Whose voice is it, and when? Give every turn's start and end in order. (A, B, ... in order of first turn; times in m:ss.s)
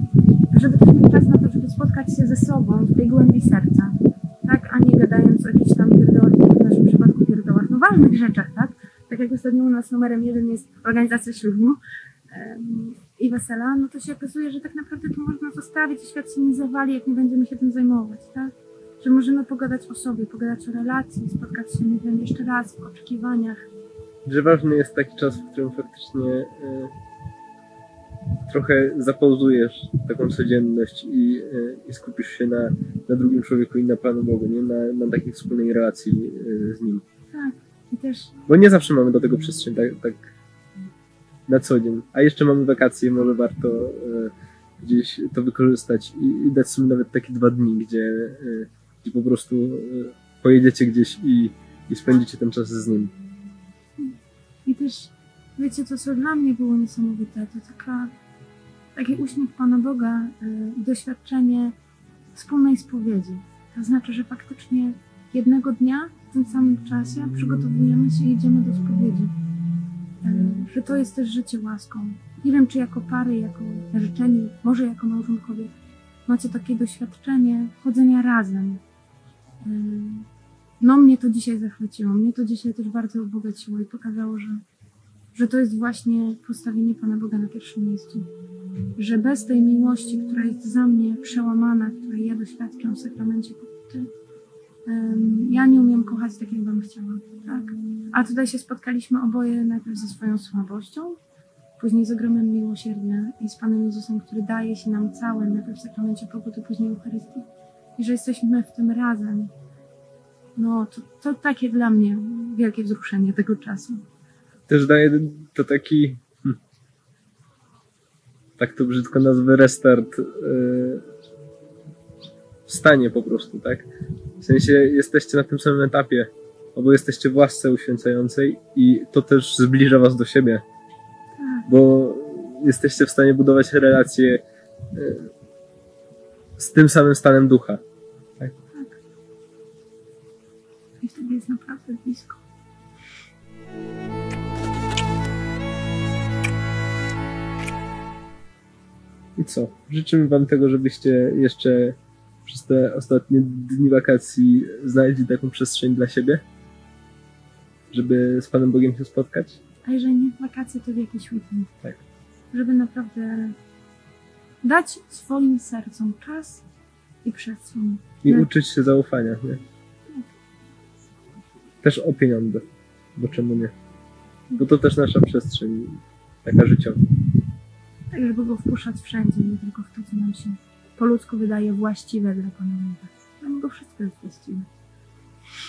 0:00.5-0:11.8 A
0:12.3-0:23.6 A
0:24.2-0:26.9 B
0:28.5-0:37.0 B
0:37.3-0:38.3 A
0:38.5-0:40.3 B
0:41.5-0:53.1 B
0:54.6-0:58.1 A
0:58.9-1:01.7 A
1:02.3-1:09.3 A
1:10.2-1:15.7 A
1:16.2-1:18.8 A
1:19.6-1:20.3 A
1:20.8-1:24.6 A
1:25.3-1:28.3 A
1:29.0-1:34.1 A
1:34.8-1:41.2 A
1:41.8-1:49.5 A
1:50.6-1:54.0 A
1:54.7-1:56.6 B
1:58.6-2:01.0 B
2:02.7-2:03.9 B
2:04.4-2:10.6 B
2:11.4-2:11.7 A
2:11.7-2:15.3 B
2:16.6-2:17.8 B
2:21.0-2:22.4 A
2:29.4-2:36.4 B
2:37.9-2:39.6 B
2:39.8-2:41.7 A
2:42.5-2:43.5 A
2:44.6-2:46.6 A
2:47.2-2:48.5 A
2:48.2-2:49.6 B
2:51.8-2:52.6 B
2:53.2-2:53.7 B
2:54.6-2:57.0 B
2:58.1-3:04.7 A